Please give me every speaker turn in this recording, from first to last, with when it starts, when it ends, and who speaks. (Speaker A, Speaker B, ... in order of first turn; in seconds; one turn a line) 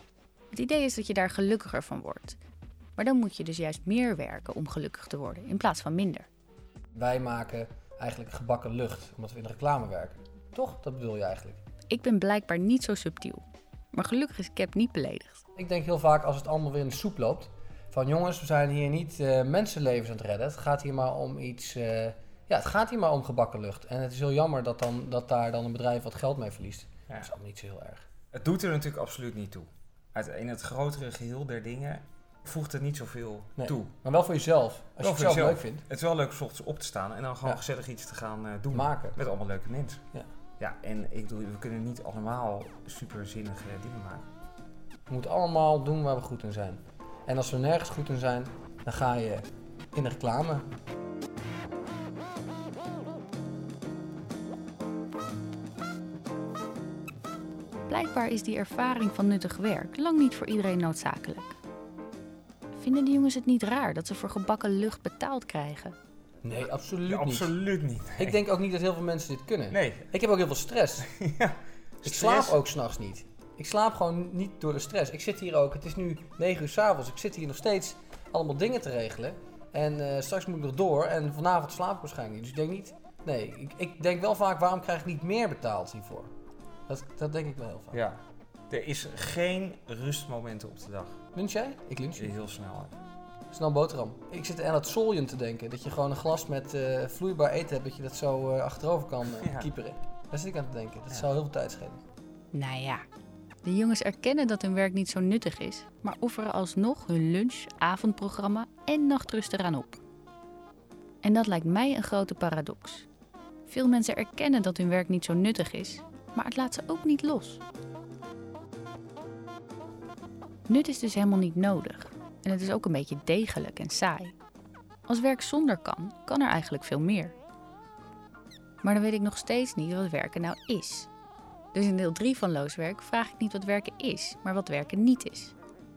Speaker A: 0.5-2.4
Speaker A: 3.0-6.3
Speaker B: 7.0-11.6
Speaker A: 11.9-15.4
Speaker B: 15.6-28.1
Speaker C: 27.1-27.3
Speaker C: 28.3-34.0
Speaker B: 33.6-35.8
Speaker C: 35.0-44.3
Speaker B: 38.7-39.2
Speaker B: 45.1-49.4
Speaker B: 50.0-50.7
Speaker A: 57.9-61.6
Speaker A: 62.7-66.0
Speaker B: 66.4-67.5
Speaker C: 67.0-68.4
Speaker B: 68.2-71.1
Speaker C: 69.7-70.1
Speaker C: 71.0-72.6
Speaker B: 72.0-86.3
Speaker B: 86.9-88.0
Speaker C: 87.9-91.3
Speaker B: 91.3-92.4
Speaker C: 92.1-93.0
Speaker B: 93.5-102.0
Speaker C: 99.3-99.7
Speaker A: 102.5-103.0
Speaker A: 103.6-110.0
Speaker A: 111.2-113.1
Speaker A: 113.7-117.6
Speaker A: 120.7-124.4
Speaker A: 125.1-127.4
Speaker A: 128.8-131.1
Speaker A: 131.7-135.6